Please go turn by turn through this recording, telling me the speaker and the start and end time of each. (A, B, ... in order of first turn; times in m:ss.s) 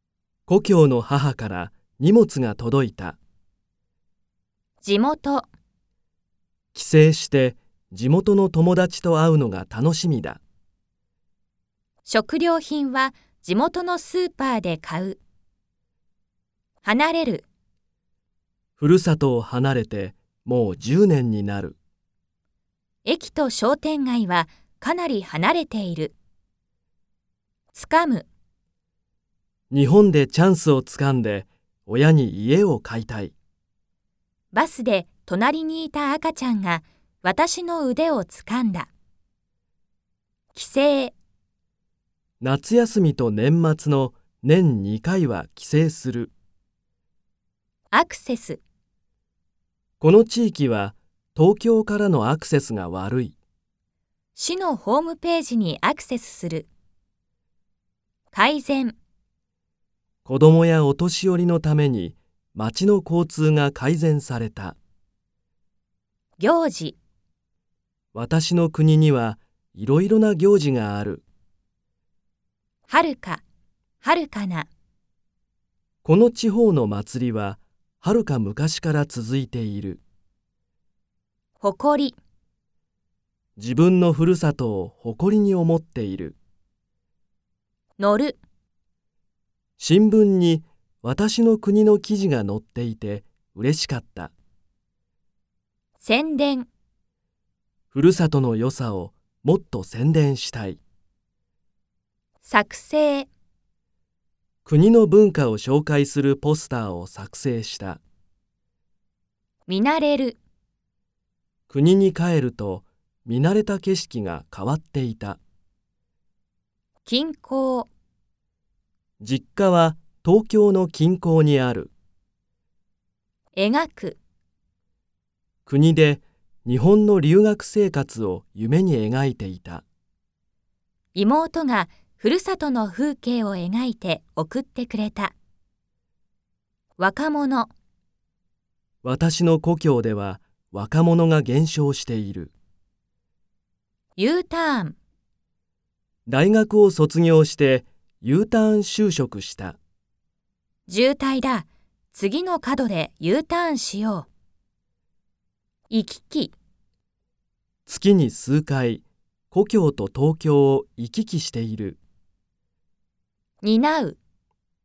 0:00.5-0:03.2 A
0:04.8-0:05.5 B
0:06.7-0:10.4 A
0:12.0-0:15.2 B
0:16.8-0:17.5 B
0:18.8-0:21.8 A
0:23.0-0:26.2 B
0:27.7-0:28.3 B
0:29.7-0:33.3 A
0:34.5-0:38.9 B
0:40.5-0:41.2 B
0:42.4-0:46.3 A
0:47.9-0:48.6 B
0:50.0-0:53.4 A
0:54.4-0:56.7 B
0:58.3-0:59.0 B
1:00.2-1:04.8 A
1:06.4-1:07.0 B
1:08.1-1:11.2 A
1:12.9-1:13.4 B
1:14.0-1:14.7 B
1:16.0-1:20.0 A
1:21.6-1:22.2 B
1:23.6-1:26.4 A
1:28.0-1:28.4 B
1:29.8-1:34.3 A
1:36.0-1:36.7 B
1:37.9-1:40.8 A
1:42.4-1:43.3 B
1:44.7-1:48.0 A
1:49.7-1:50.4 B
1:51.7-1:55.4 A
1:57.0-1:57.9 B
1:59.2-2:01.9 A
2:03.6-2:04.2 B
2:05.7-2:09.8 A
2:11.2-2:15.4 B
2:17.0-2:17.7 B
2:19.0-2:22.5 A
2:24.2-2:25.0 B
2:26.3-2:29.8 A
2:30.9-2:34.3 B
2:35.9-2:36.6 B
2:37.9-2:42.0 A
2:43.6-2:44.2 B